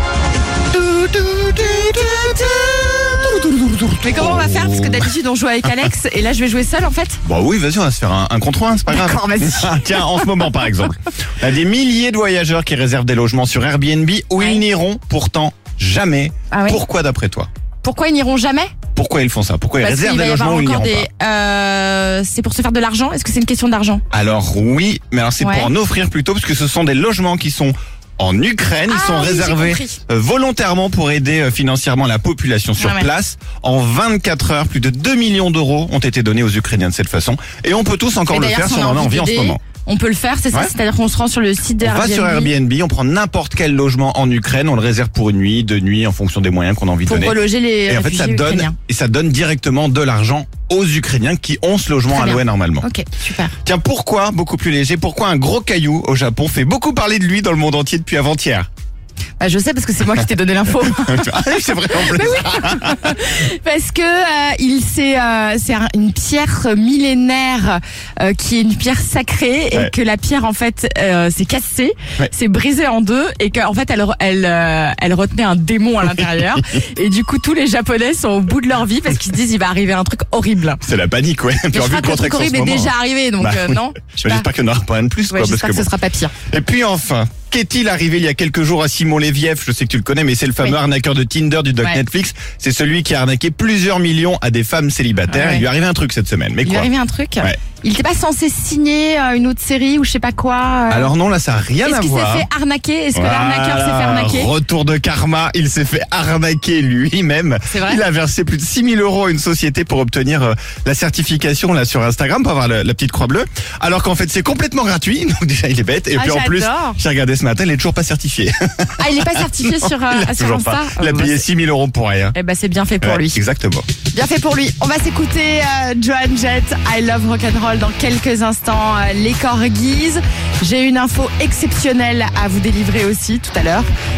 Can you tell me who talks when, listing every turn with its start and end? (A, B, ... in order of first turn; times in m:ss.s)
0:00.7-0:05.1 A
0:04.0-0:07.2 B
0:07.2-0:17.5 A
0:08.9-0:10.3 B
0:16.5-0:16.8 B
0:17.8-0:18.7 B
0:18.9-0:21.1 A
0:19.8-0:24.0 B
0:24.1-0:39.6 A
0:25.4-0:25.7 B
0:28.9-0:30.0 B
0:32.8-0:33.1 B
0:38.3-0:42.5 B
0:41.8-0:52.8 A
0:47.0-0:48.7 B
0:52.1-0:53.5 B
0:53.6-0:58.7 A
0:59.4-1:20.8 B
1:00.8-1:03.2 A
1:16.2-1:16.6 A
1:20.8-1:25.9 A
1:21.7-1:24.5 B
1:25.3-1:26.3 B
1:26.5-1:36.9 A
1:35.3-1:35.6 B
1:36.6-1:41.1 B
1:40.9-1:42.5 A
1:41.8-1:44.5 B
1:43.1-2:02.3 A
1:47.7-1:48.0 B
1:56.1-1:57.0 B
1:59.0-2:01.4 B
2:02.3-2:03.4 B
2:03.0-2:03.8 A
2:04.1-2:13.9 B